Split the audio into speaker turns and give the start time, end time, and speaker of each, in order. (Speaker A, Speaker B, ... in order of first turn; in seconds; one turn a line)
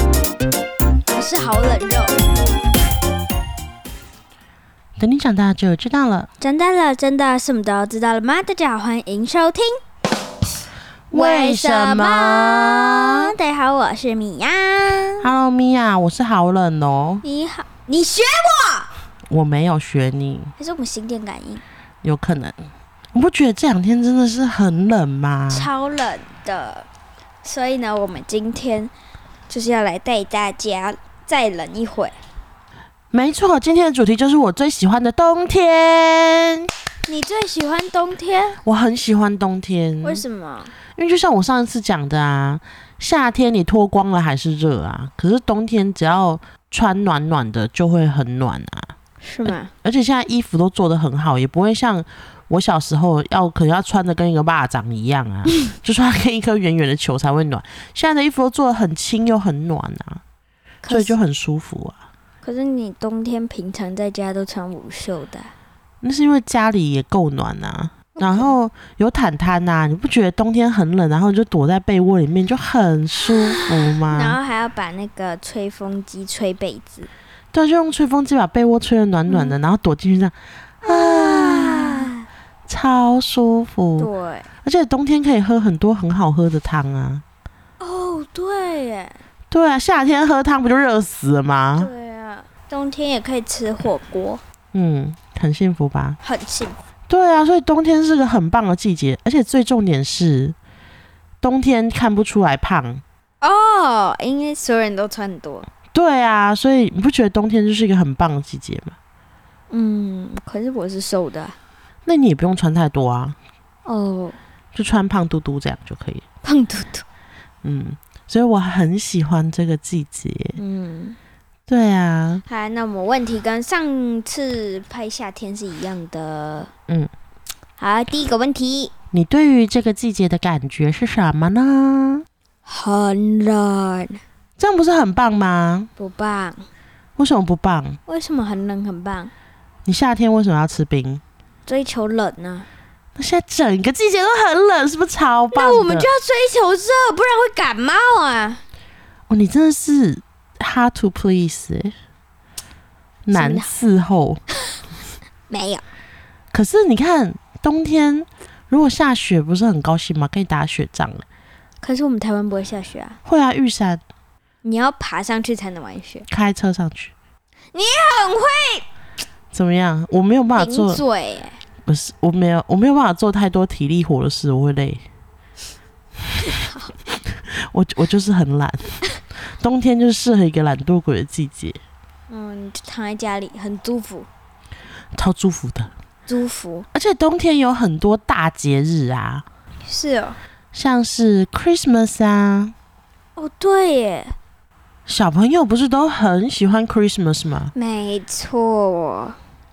Speaker A: 1.1-2.1
Speaker B: 5.0-6.3
Speaker A: 6.4-9.8
Speaker B: 11.1-13.3
Speaker A: 11.1-15.3
Speaker B: 15.2-17.2
Speaker A: 17.2-18.9
Speaker B: 19.3-20.5
Speaker A: 20.6-21.6
Speaker B: 22.0-22.6
Speaker B: 23.1-25.7
Speaker A: 25.5-26.9
Speaker A: 27.4-28.9
Speaker A: 29.5-32.1
Speaker B: 33.1-36.7
Speaker A: 37.1-38.6
Speaker B: 38.6-40.2
Speaker A: 40.0-40.7
Speaker B: 40.9-48.9
Speaker A: 49.2-49.7
Speaker B: 49.5-60.2
Speaker A: 60.8-61.1
Speaker B: 60.9-62.0
Speaker A: 62.4-65.5
Speaker B: 66.0-74.4
Speaker A: 68.2-68.5
Speaker A: 73.2-77.1
Speaker B: 77.5-82.1
Speaker A: 79.3-79.5
Speaker A: 80.8-82.2
Speaker B: 82.7-84.1
Speaker A: 84.0-84.5
Speaker B: 84.6-87.2
Speaker A: 87.8-89.2
Speaker B: 89.5-91.9
Speaker A: 91.8-94.4
Speaker B: 94.7-96.2
Speaker A: 96.2-96.8
Speaker B: 97.1-100.5
Speaker B: 101.4-103.0
Speaker A: 103.4-105.7
Speaker B: 105.9-109.0
Speaker A: 109.7-111.5
Speaker B: 112.0-113.4
Speaker A: 113.8-114.4
Speaker B: 114.7-116.2
Speaker A: 116.4-117.0
Speaker B: 117.6-120.6
Speaker A: 120.5-121.2
Speaker B: 121.7-122.4
Speaker A: 122.5-126.7
Speaker A: 127.8-128.9
Speaker B: 129.1-132.2
Speaker A: 132.7-134.2
Speaker B: 134.6-135.9
Speaker A: 136.0-136.7
Speaker B: 137.2-138.0
Speaker A: 138.1-139.3
Speaker B: 139.8-141.2
Speaker A: 141.7-142.7
Speaker B: 143.2-146.1
Speaker A: 145.5-148.6
Speaker B: 149.3-151.9
Speaker B: 153.2-154.4
Speaker A: 153.3-153.7
Speaker A: 155.5-155.8
Speaker B: 156.5-161.2
Speaker A: 161.8-163.2
Speaker B: 163.2-164.0
Speaker A: 164.6-166.3
Speaker B: 166.3-167.1
Speaker A: 167.7-168.8
Speaker B: 169.5-171.0
Speaker A: 170.6-171.6
Speaker B: 171.8-175.0
Speaker A: 176.4-176.9
Speaker B: 177.2-181.8
Speaker A: 182.3-184.3
Speaker B: 185.1-185.9
Speaker A: 186.3-186.9
Speaker B: 186.9-189.4
Speaker A: 189.8-190.4
Speaker B: 190.7-192.7
Speaker A: 193.4-194.3
Speaker B: 195.1-197.7
Speaker A: 197.7-199.4